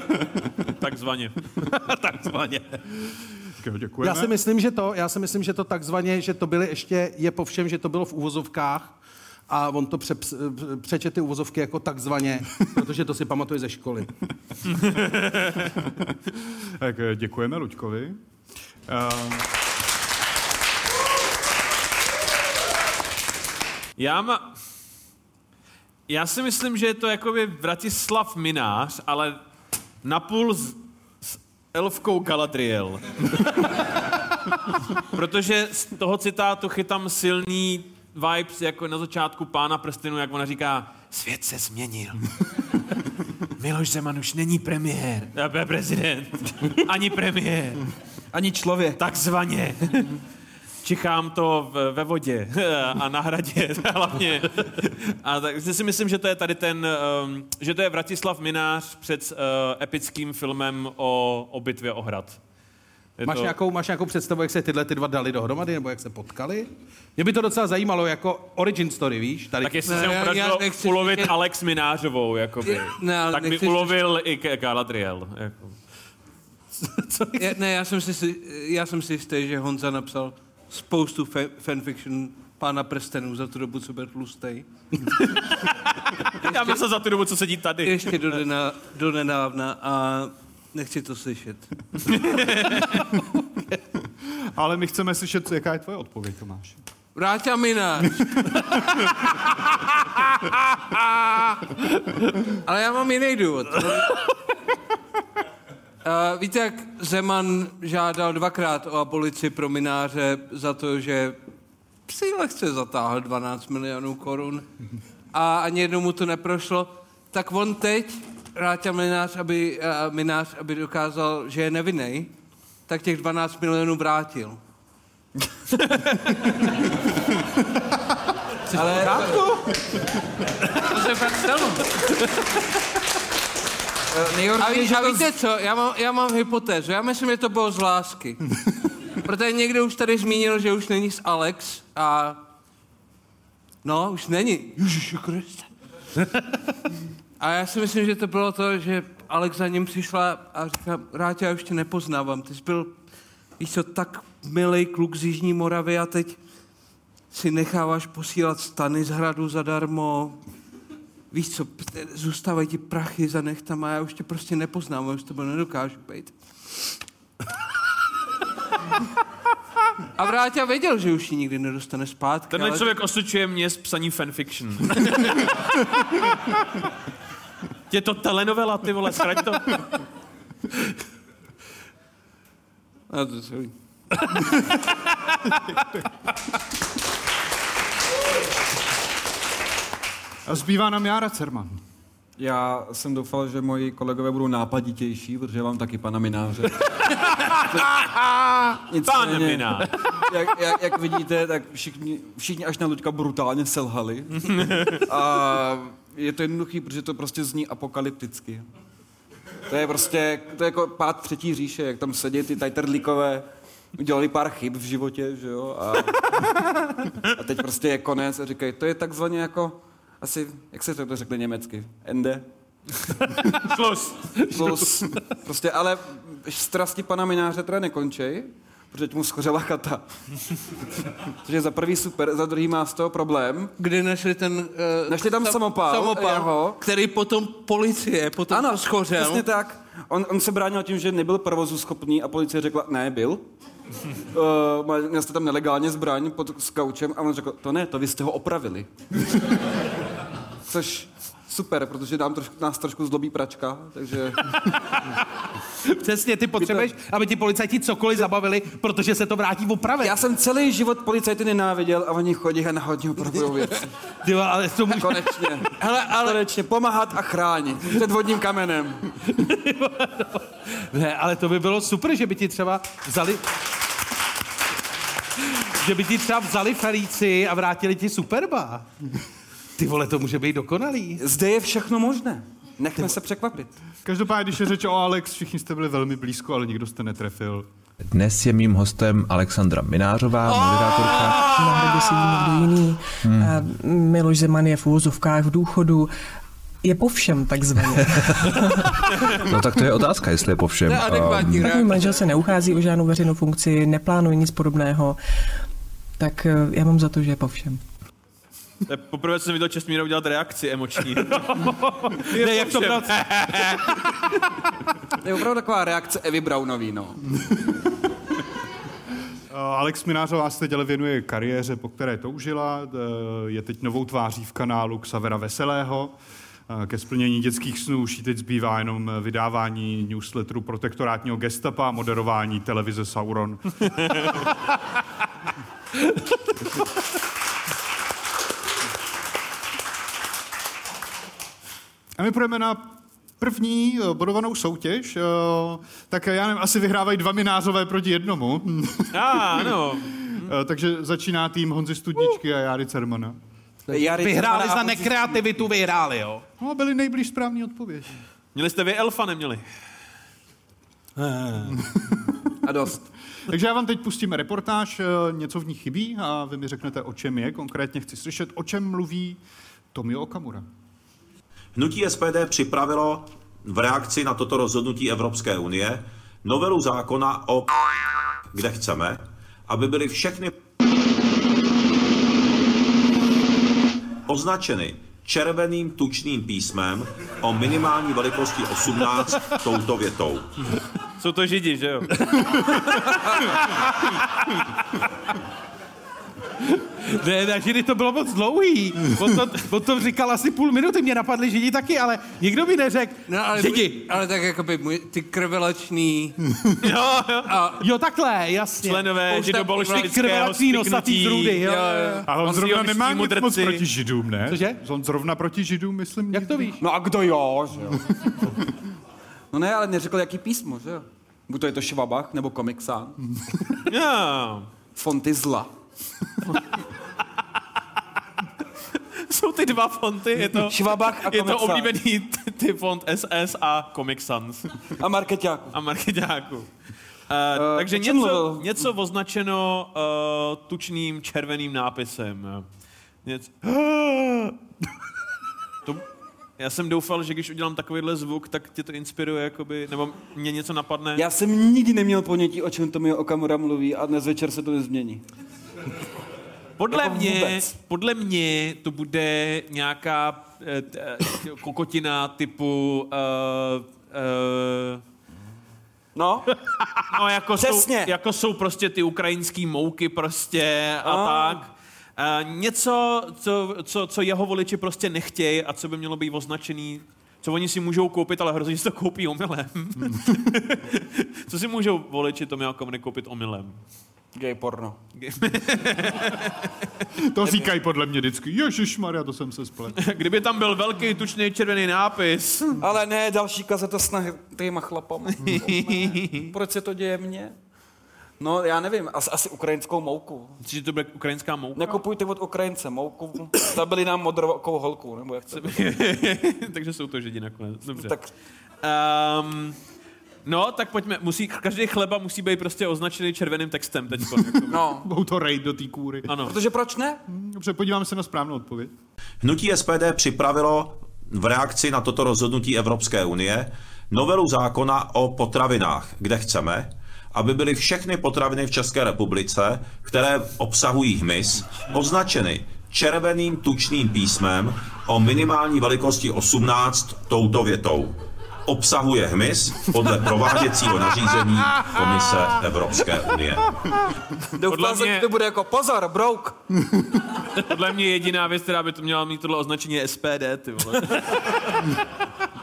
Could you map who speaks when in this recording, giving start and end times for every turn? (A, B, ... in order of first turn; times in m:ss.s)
0:00.8-0:01.3 A
0:01.6-0:02.9 B
0:03.6-0:04.3 C
0:04.0-0:08.9 B
0:09.5-0:14.1 B
0:14.7-0:15.7 A
0:15.8-0:18.2 C
0:18.9-0:19.5 C
0:24.0-0:24.6 A
0:26.1-0:29.4 A
0:30.0-0:33.8 A
0:34.9-0:42.3 A
0:43.6-0:47.8 A
0:48.3-0:49.0 D
0:49.0-0:50.2 A
0:50.8-1:02.4 A
1:03.2-1:03.5 A
1:03.2-1:09.9 B
1:09.6-1:15.8 A
1:09.8-1:11.3 E
1:12.6-1:14.0 E
1:17.3-1:24.7 E
1:25.4-1:28.4 A
1:26.4-1:26.8 E
1:27.8-1:31.7 E
1:32.1-1:33.1 A
1:34.2-1:36.8 C
1:37.1-1:38.8 E
1:38.4-1:39.1 C
1:42.3-1:44.2 E
1:46.0-1:51.4 E
1:52.1-1:54.6 E
1:55.3-2:02.3 E
2:02.9-2:04.6 E
2:08.7-2:09.5 D
2:10.8-2:12.0 E
2:14.1-2:15.3 D
2:14.6-2:18.5 E
2:19.1-2:22.4 E
2:23.8-2:25.7 E
2:27.4-2:32.9 E
2:33.6-2:36.4 E
2:37.3-2:40.4 E
2:41.3-2:46.3 E
2:50.2-2:53.0 E
2:52.5-2:56.1 A
2:57.9-3:00.0 A
3:03.1-3:03.7 E
3:10.4-3:11.8 C
3:12.4-3:18.1 D
3:18.8-3:28.7 D
3:19.0-3:19.9 A
3:24.4-3:25.0 A
3:29.7-3:42.5 D
3:43.3-3:45.0 A
3:44.5-3:50.1 D
3:51.2-3:53.7 D
3:53.8-3:59.4 E
3:55.1-3:56.8 D
3:58.5-4:03.4 D
4:04.3-4:08.9 D
4:10.7-4:14.9 D
4:15.9-4:20.2 B
4:16.6-4:16.9 D
4:20.0-4:23.9 D
4:24.2-4:25.9 B
4:24.9-4:29.2 D
4:25.8-4:26.1 E
4:29.4-4:33.5 B
4:35.4-4:38.9 B
4:39.8-4:41.2 B
4:41.2-4:43.7 D
4:44.0-4:47.7 C
4:48.1-4:51.5 F
4:51.2-4:51.6 E
4:51.4-4:56.1 G
4:53.2-4:53.5 F
4:56.8-4:59.1 G
4:58.2-4:58.9 F
4:59.4-5:01.7 F
5:00.8-5:02.3 E
5:01.5-5:05.2 G
5:06.2-5:07.8 G
5:08.9-5:14.4 A
5:12.0-5:13.8 B
5:15.2-5:17.2 D
5:19.5-5:26.1 C
5:26.7-5:34.0 C
5:42.2-5:53.4 C
5:49.1-5:50.5 A
5:53.9-5:56.4 B
5:53.9-5:55.4 D
5:56.6-5:58.2 C
5:58.5-5:59.6 A
6:01.2-6:01.8 B
6:02.6-6:03.0 D
6:03.5-6:09.4 C
6:09.9-6:10.6 C
6:11.8-6:17.7 H
6:18.5-6:20.5 H
6:24.3-6:30.5 H
6:31.2-6:33.6 A
6:36.6-6:44.1 B
6:43.3-6:46.4 E
6:46.8-6:47.5 A
6:47.5-6:47.8 E
6:47.8-6:52.3 B
6:48.8-6:51.7 A
6:49.3-6:50.1 E
6:51.6-6:52.2 E
6:52.2-6:56.8 C
6:52.3-6:53.9 A
6:54.5-6:54.8 B
6:56.3-6:56.8 B
6:56.8-6:58.1 D
6:59.5-7:03.2 D
7:03.9-7:04.7 A
7:05.0-7:05.7 D
7:09.1-7:14.7 A
7:10.5-7:11.9 D
7:15.0-7:15.8 D
7:15.7-7:16.7 A
7:17.3-7:22.6 A
7:17.5-7:18.9 D
7:23.2-7:24.5 A
7:26.6-7:31.2 A
7:31.2-7:35.2 D
7:36.8-7:45.0 A
7:36.9-7:37.7 D
7:46.1-7:46.5 D
7:46.7-8:03.8 A
7:47.6-7:48.1 D
7:51.0-7:51.6 D
8:00.0-8:00.4 C
8:04.4-8:05.0 D
8:05.2-8:06.7 A
8:07.2-8:10.0 C
8:07.4-8:07.7 D
8:10.0-8:12.8 A
8:12.8-8:17.5 D
8:15.5-8:16.5 A
8:18.4-8:20.6 D
8:20.6-8:22.0 A
8:21.8-8:25.9 D
8:25.5-8:28.1 A
8:27.9-8:28.3 D
8:28.8-8:29.8 A
8:30.4-8:34.8 A
8:34.7-8:35.1 D
8:35.0-8:36.3 C
8:36.3-8:36.6 A
8:36.4-8:37.2 D
8:37.3-8:38.9 C
8:39.4-9:03.7 H
9:04.5-9:06.6 D
9:04.7-9:05.3 A
9:07.5-9:12.0 A